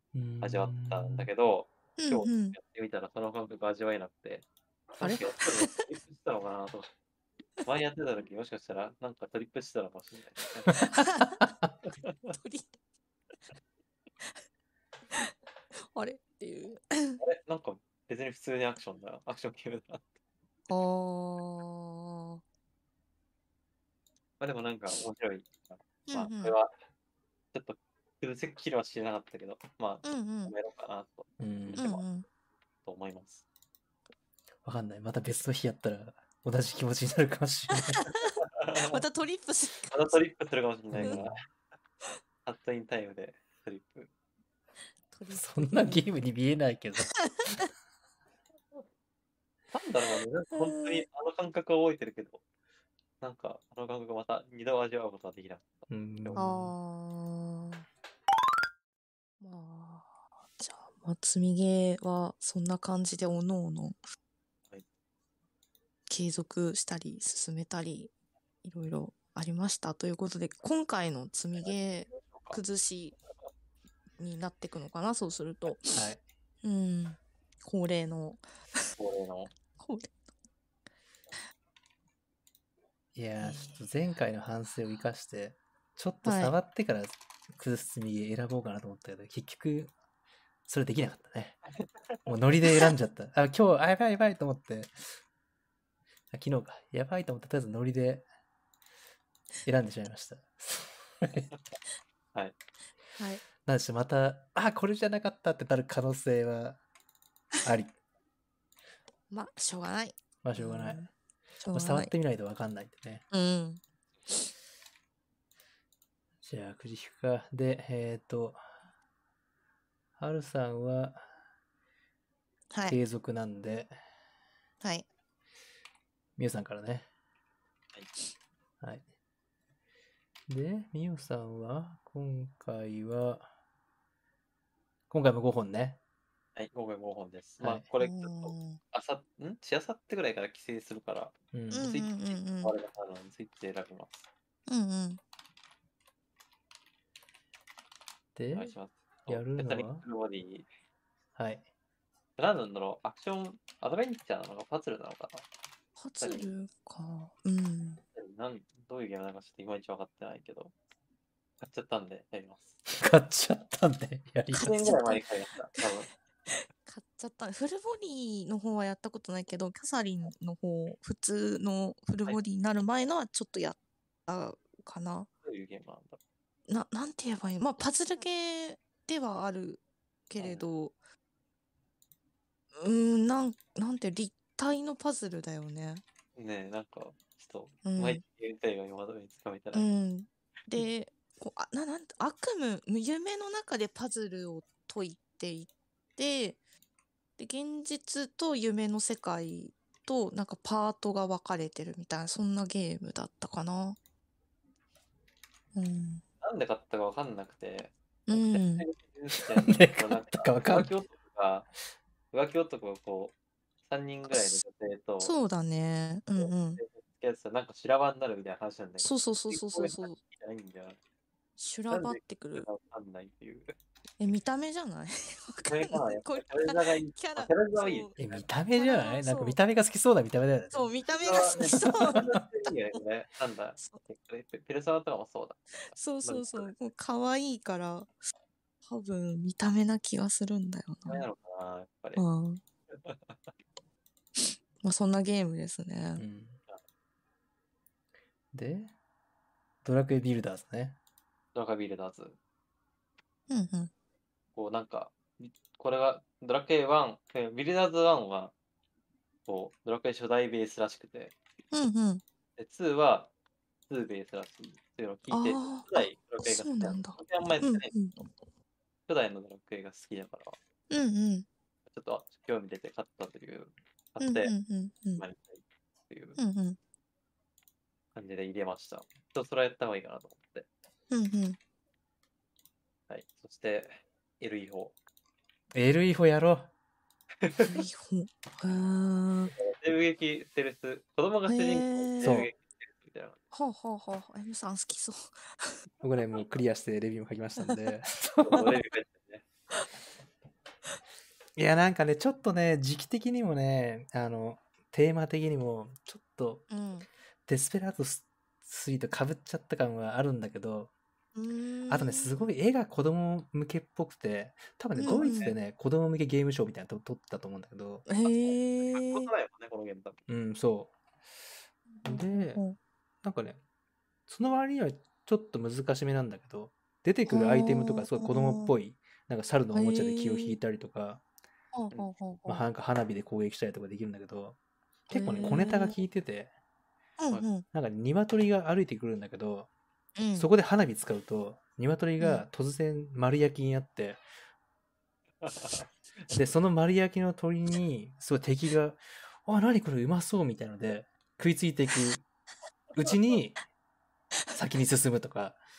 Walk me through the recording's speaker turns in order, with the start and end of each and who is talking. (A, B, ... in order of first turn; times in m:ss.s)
0:00.1-0:01.3 A
0:00.4-0:06.9 B
0:02.0-0:02.6 C
0:05.0-0:05.8 C
0:07.6-0:10.8 B
0:10.8-0:11.4 C
0:11.4-0:11.7 A
0:11.8-0:12.3 B
0:12.3-0:12.7 C
0:15.9-0:17.2 C
0:17.2-0:20.2 B
0:20.7-0:22.4 C
0:24.4-0:26.7 B
0:26.1-0:26.5 C
0:27.5-0:32.0 B
0:30.0-0:30.5 C
0:31.4-0:31.8 A
0:31.8-0:32.2 C
0:32.8-0:33.4 B
0:34.6-0:38.0 A
0:37.9-0:38.4 C
0:38.6-0:39.0 B
0:38.9-0:40.2 C
0:39.9-0:41.4 B
0:40.9-0:41.4 A
0:42.4-0:44.1 B
0:45.1-0:46.1 C
0:45.3-0:47.1 A
0:47.2-0:47.7 C
0:49.7-0:52.4 B
0:50.5-0:51.0 C
0:53.2-0:56.4 B
0:55.9-0:56.7 A
0:56.4-0:57.8 C
0:59.4-1:04.0 C
1:06.1-1:08.1 C
1:08.6-1:13.2 C
1:11.6-1:12.6 B
1:14.2-1:16.0 C
1:15.9-1:16.2 A
1:16.6-1:18.9 C
1:19.0-1:19.5 B
1:19.8-1:20.1 C
1:23.1-1:29.9 A
1:23.4-1:23.8 C
1:26.2-1:26.6 C
1:30.7-1:31.6 A
1:31.8-1:32.2 B
1:32.2-1:35.0 A
1:32.6-1:32.9 C
1:36.3-1:38.2 A
1:39.6-1:41.5 A
1:43.2-1:43.4 C
1:43.6-1:46.8 A
1:47.6-1:47.9 A
1:49.3-1:51.1 C
1:50.4-1:51.1 A
1:51.6-1:52.1 C
1:51.7-1:53.2 A
1:53.3-1:54.5 C
1:56.4-1:58.6 A
2:00.2-2:01.2 A
2:02.7-2:03.0 C
2:02.9-2:03.9 A
2:04.8-2:05.0 C
2:06.4-2:07.1 A
2:10.5-2:13.5 A
2:15.1-2:16.0 A
2:16.6-2:24.3 B
2:17.6-2:17.8 A
2:18.0-2:18.8 C
2:21.5-2:21.9 A
2:21.7-2:22.7 C
2:24.7-2:25.2 C
2:28.4-2:28.7 A
2:28.5-2:30.7 B
2:29.3-2:30.0 A
2:31.4-2:31.6 A
2:32.4-2:35.4 B
2:36.0-2:38.0 C
2:36.2-2:36.5 B
2:38.1-2:40.7 B
2:41.6-2:42.8 B
2:42.9-2:45.0 A
2:44.5-2:46.1 B
2:44.6-2:45.2 C
2:46.5-2:55.3 C
2:55.4-2:56.2 B
2:56.7-3:00.9 C
3:00.4-3:00.6 B
3:02.8-3:06.0 C
3:06.4-3:09.9 B
3:07.8-3:08.2 C
3:09.7-3:16.6 C
3:17.4-3:24.0 C
3:25.7-3:26.2 C
3:26.4-3:31.7 B
3:28.3-3:28.8 C
3:29.6-3:30.9 A
3:32.3-3:33.3 B
3:33.9-3:35.3 B
3:34.3-3:34.6 C
3:35.2-3:36.8 C
3:36.4-3:41.0 B
3:39.0-3:40.2 C
3:41.6-3:42.6 C
3:41.9-3:43.8 B
3:44.2-3:48.2 C
3:45.7-3:48.4 B
3:48.2-3:50.9 A
3:48.7-3:49.6 C
3:50.7-3:52.7 C
3:51.2-3:55.6 B
3:55.9-3:58.1 C
3:56.2-3:56.7 B
3:58.9-4:01.2 C
4:01.0-4:02.2 B
4:02.2-4:02.6 C
4:02.9-4:03.5 B
4:04.4-4:06.2 C
4:06.2-4:06.6 A
4:08.5-4:08.9 A
4:09.8-4:11.0 A
4:11.5-4:12.4 B
4:13.5-4:13.9 C
4:14.5-4:18.5 B
4:19.5-4:21.3 B
4:21.7-4:22.2 C
4:22.6-4:23.3 B
4:23.9-4:27.9 B
4:25.3-4:28.2 C
4:29.1-4:30.6 B
4:30.9-4:31.4 C
4:31.9-4:34.5 B
4:34.2-4:35.2 C
4:35.2-4:36.4 B
4:36.4-4:36.8 C
4:38.1-4:40.7 B
4:41.1-4:41.6 C
4:43.1-4:44.9 B
4:45.7-4:46.7 A
4:47.4-4:47.8 B
4:47.6-4:49.5 C
4:49.5-4:53.4 B
4:51.5-4:52.4 C
4:52.2-4:52.5 A
4:53.5-4:55.7 C
4:56.0-4:58.6 A
4:57.6-4:57.9 C
4:58.4-4:59.4 B
5:01.6-5:06.7 A
5:06.7-5:07.1 C
5:07.4-5:10.9 A
5:11.3-5:12.3 C
5:11.9-5:18.1 A
5:15.0-5:15.5 C
5:15.1-5:15.6 B
5:18.1-5:19.3 C
5:18.2-5:20.2 B
5:20.3-5:20.9 A
5:21.9-5:22.8 C
5:22.0-5:22.6 A
5:23.2-5:23.6 A
5:24.3-5:31.2 A
5:27.3-5:28.7 C
5:29.7-5:30.6 C
5:31.7-5:32.6 C
5:32.4-5:34.6 A
5:35.1-5:36.5 A
5:35.1-5:36.0 C
5:37.2-5:37.6 C
5:37.7-5:39.7 A
5:40.2-5:40.5 C
5:40.3-5:44.2 A
5:42.2-5:42.4 C
5:45.4-5:45.9 B
5:46.3-5:52.2 A
5:53.0-5:53.6 A
5:54.5-5:55.6 A